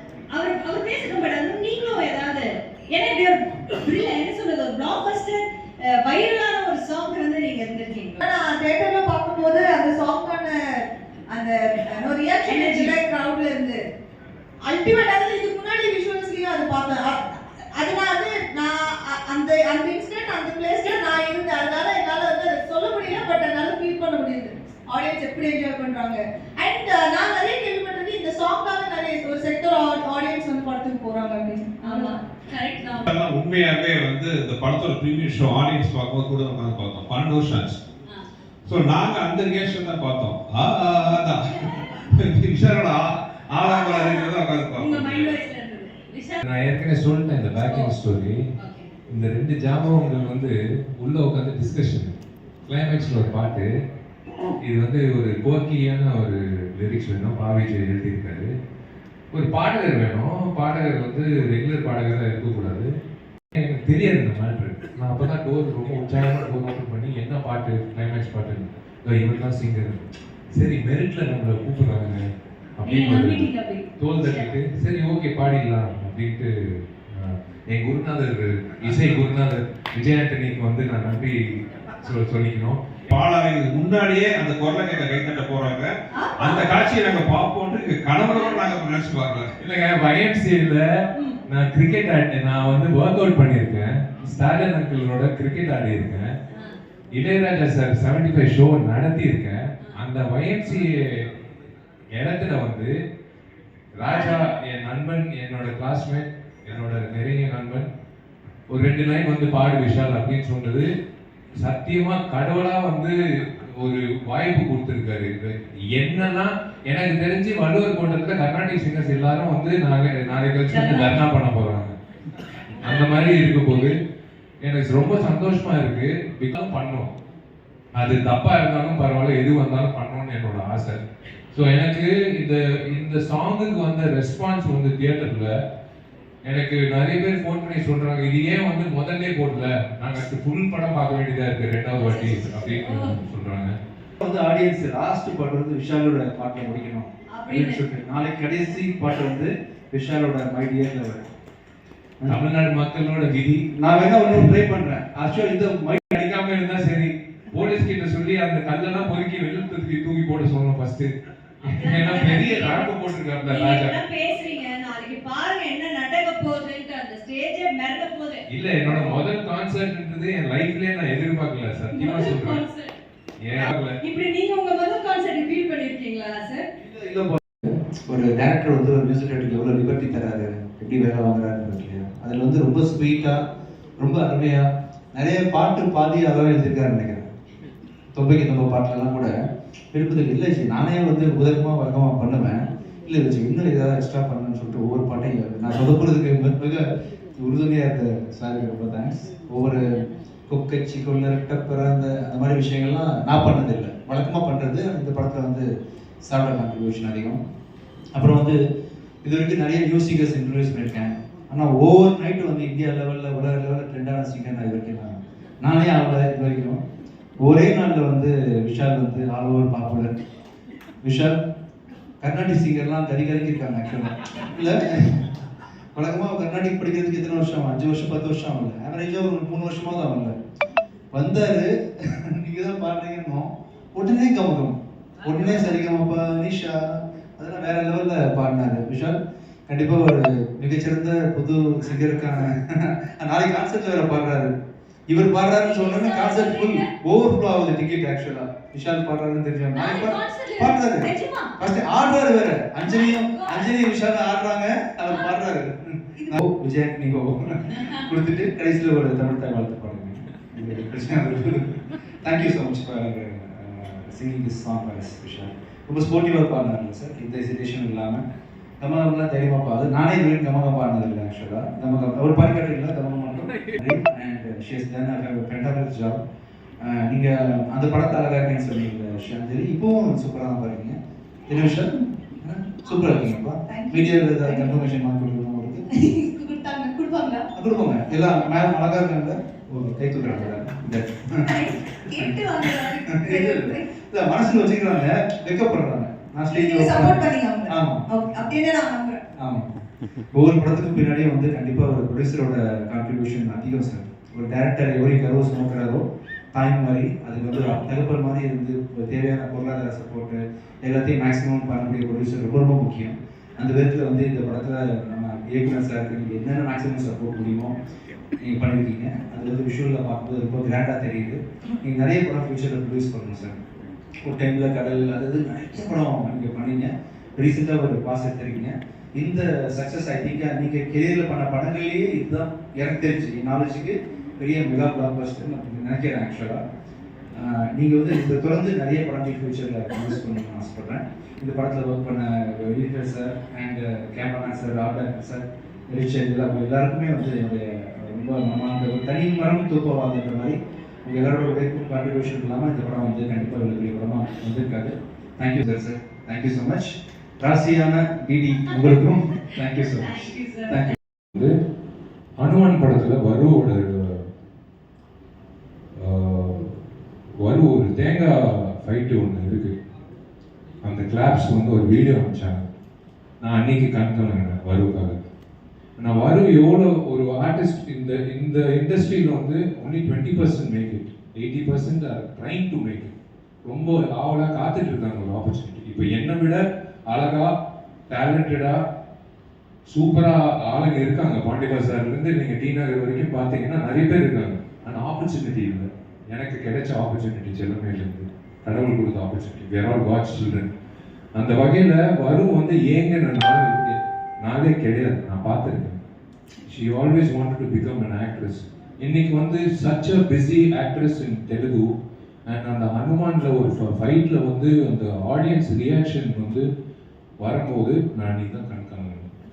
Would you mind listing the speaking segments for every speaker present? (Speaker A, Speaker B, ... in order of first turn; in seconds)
Speaker A: 0.3-8.2, 12.5-12.9, 31.8-33.0, 43.7-46.4, 47.5-47.9, 48.6-48.9, 72.8-74.5, 86.1-86.6, 104.0-104.5, 120.7-121.2, 141.9-143.2, 147.3-147.8, 161.6-162.9, 163.4-169.2, 171.9-172.9, 173.5-176.6, 245.6-246.9, 249.7-251.5, 252.8-253.7, 360.0-360.9
Speaker B: 8.2-13.8, 14.6-32.2, 283.6-284.8, 285.9-287.5, 291.4-293.9, 296.5-299.2
Speaker C: 33.1-37.8, 38.7-41.5, 42.1-45.3, 83.1-85.9, 86.4-89.5
Speaker D: 46.4-48.4, 49.1-52.1, 52.7-53.7, 54.6-58.5, 59.3-62.9, 63.5-72.2, 72.8-82.8, 89.6-90.8, 91.5-96.3, 97.1-101.3, 102.1-102.9, 104.0-107.9, 108.7-110.9, 111.6-121.9, 122.8-123.9, 124.6-127.1, 128.0-131.0, 131.5-135.5, 136.4-143.8, 152.2-153.8, 154.3-154.6, 156.0-161.1, 161.6-164.0, 168.5-172.6, 173.4-174.0, 362.4-364.3, 366.0-366.7, 367.4-369.8, 370.9-372.7, 373.4-375.2, 376.0-386.6, 387.1-387.5, 388.1-388.8, 389.9-400.7, 401.3-406.0, 406.6-411.9, 412.5-416.6, 417.4-419.3
Speaker E: 144.2-151.3, 153.8-156.1, 176.8-183.4, 184.0-187.3, 188.1-189.4, 189.9-205.7, 206.2-207.4, 208.1-208.6, 209.2-216.8, 217.4-220.1, 221.0-221.3, 222.2-225.3, 225.9-230.3, 231.1-239.2, 239.7-244.5, 245.1-268.2, 268.8-276.2, 276.8-285.8, 287.5-298.0, 299.4-299.7, 300.3-306.0, 306.5-317.7, 318.4-323.6, 324.2-336.6, 337.3-360.9